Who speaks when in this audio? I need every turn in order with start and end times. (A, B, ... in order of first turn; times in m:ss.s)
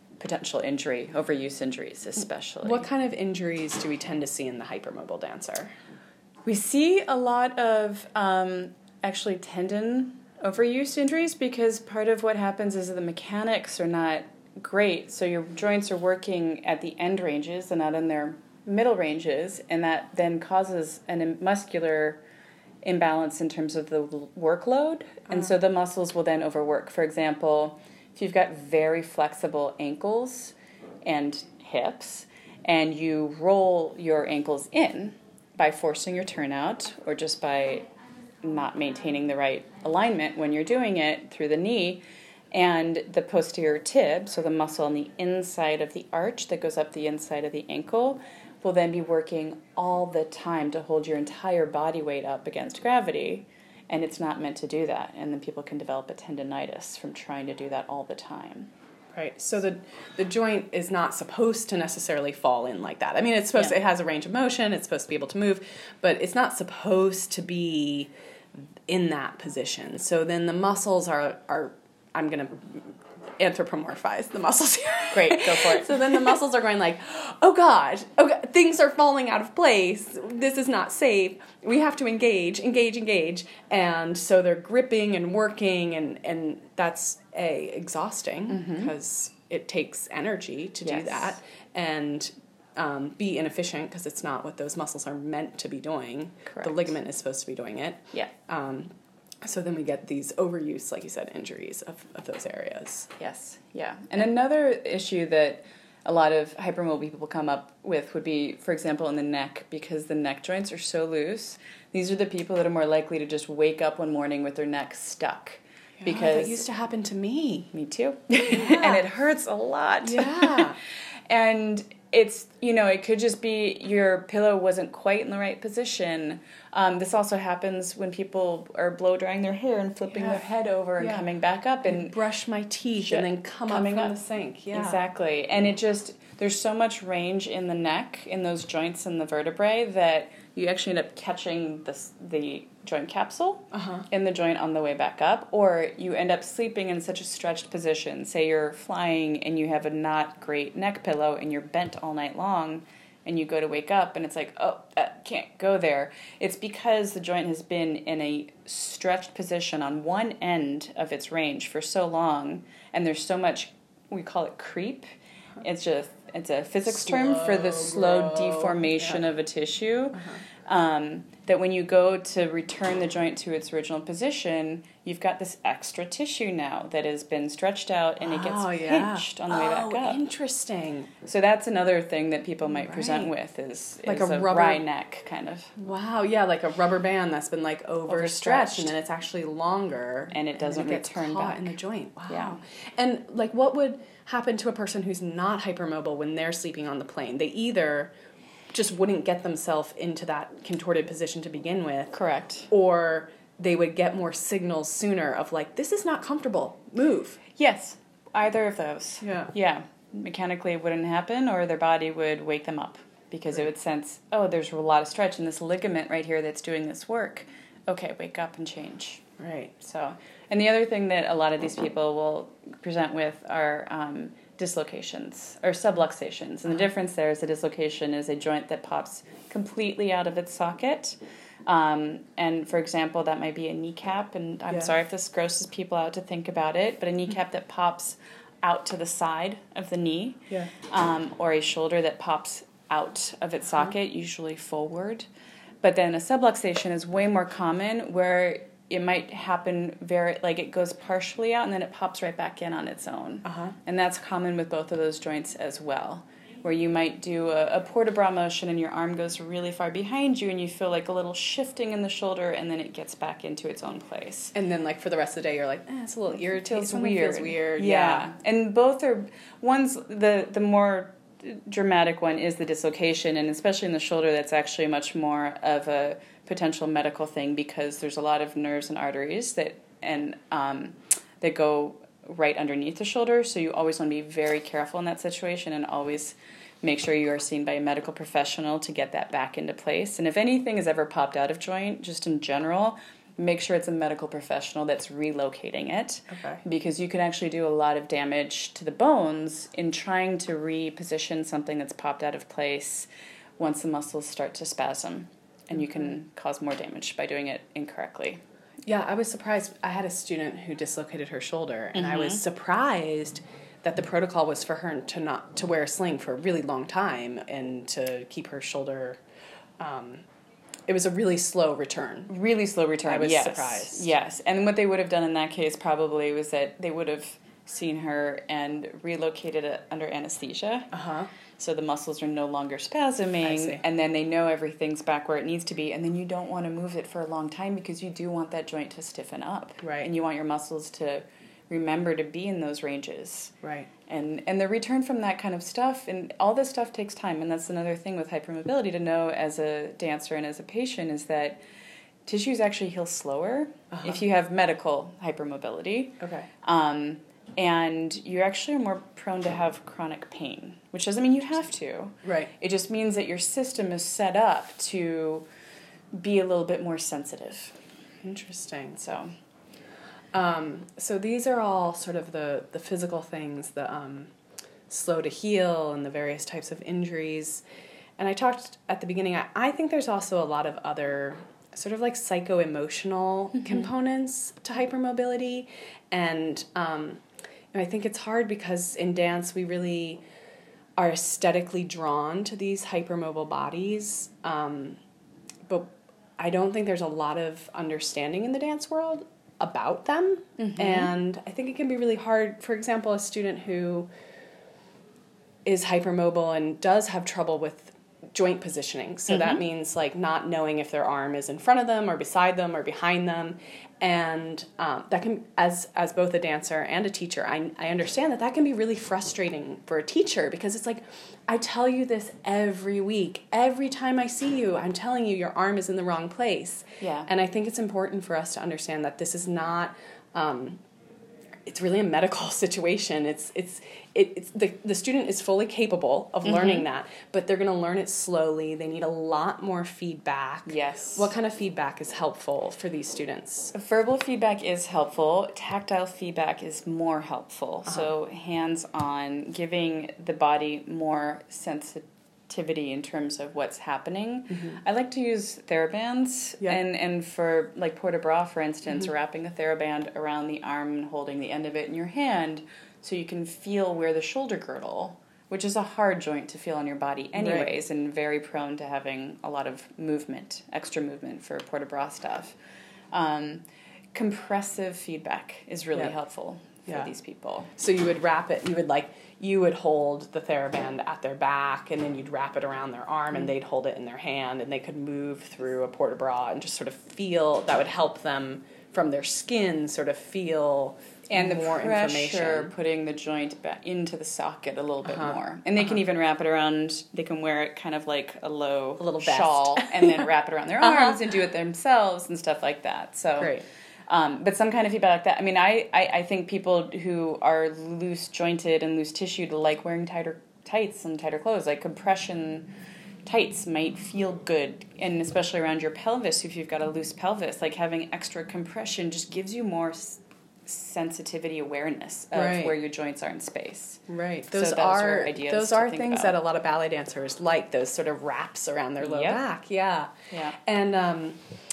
0:00.2-0:02.9 A
0:02.6-0:05.7 B
0:06.5-0:22.2 A
0:22.8-0:37.9 A
0:38.4-0:58.7 A
0:59.1-1:08.1 B
1:08.9-1:38.9 B
1:15.1-1:16.0 A
1:28.5-1:28.9 A
1:30.8-1:31.4 A
1:36.5-1:36.9 A
1:39.4-1:43.1 B
1:43.2-1:56.6 A
1:56.0-1:57.7 B
1:57.7-2:00.8 A
1:58.5-1:59.0 B
2:00.0-2:00.8 B
2:01.3-2:12.2 A
2:10.1-2:10.4 B
2:11.0-2:11.3 B
2:11.8-2:15.0 B
2:13.0-2:14.1 A
2:14.7-2:45.1 A
2:23.7-2:24.1 B
2:45.6-3:00.2 A
2:46.9-2:49.2 B
2:50.2-2:50.4 B
2:58.2-3:01.1 B
3:01.2-3:05.7 A
3:02.7-3:03.3 B
3:04.0-3:04.8 B
3:05.8-3:18.1 B
3:08.1-3:08.9 A
3:10.3-3:11.8 A
3:12.3-3:12.6 A
3:18.7-3:22.1 B
3:22.1-3:22.7 A
3:22.7-3:27.4 B
3:27.6-3:39.2 A
3:29.2-3:29.5 B
3:39.4-3:39.7 B
3:39.8-4:05.3 A
4:05.8-4:24.5 A
4:13.4-4:13.8 B
4:24.5-4:28.3 B
4:26.4-5:08.4 A
4:56.3-4:56.6 B
5:08.9-5:19.2 B
5:11.9-5:12.4 A
5:19.8-5:20.2 B
5:20.9-5:22.3 B
5:22.3-5:30.9 A
5:23.1-5:24.1 B
5:30.9-5:31.3 B
5:31.6-5:43.5 A
5:33.4-5:33.8 B
5:39.8-5:40.1 B
5:43.6-5:43.9 B
5:44.1-5:51.6 A
5:52.3-6:05.5 A
5:56.2-5:56.5 B
6:02.2-6:02.5 B
6:06.2-6:07.8 A
6:08.2-6:09.0 B
6:08.9-6:09.3 A
6:10.3-6:14.3 B
6:14.9-6:17.6 B
6:18.2-6:30.2 B
6:31.0-6:35.0 B
6:35.7-6:44.1 B
6:40.6-6:41.1 A
6:45.6-7:10.8 B
6:49.3-6:49.6 A
7:07.0-7:07.3 A
7:11.7-7:23.7 B
7:16.4-7:16.8 A
7:20.7-7:21.3 A
7:23.7-7:52.6 A
7:34.5-7:34.8 B
7:47.4-7:47.7 B
7:53.1-7:57.7 A
7:57.8-8:12.7 B
8:11.3-8:23.6 A
8:15.0-8:15.4 B
8:19.0-8:20.3 B
8:20.8-8:21.2 B
8:23.4-8:23.7 B
8:24.1-8:32.7 A
8:33.2-8:44.0 A
8:42.3-8:42.8 B
8:44.1-8:50.1 B
8:44.5-8:46.4 A
8:49.0-8:49.4 A
8:50.3-8:50.6 A
8:50.6-8:51.4 B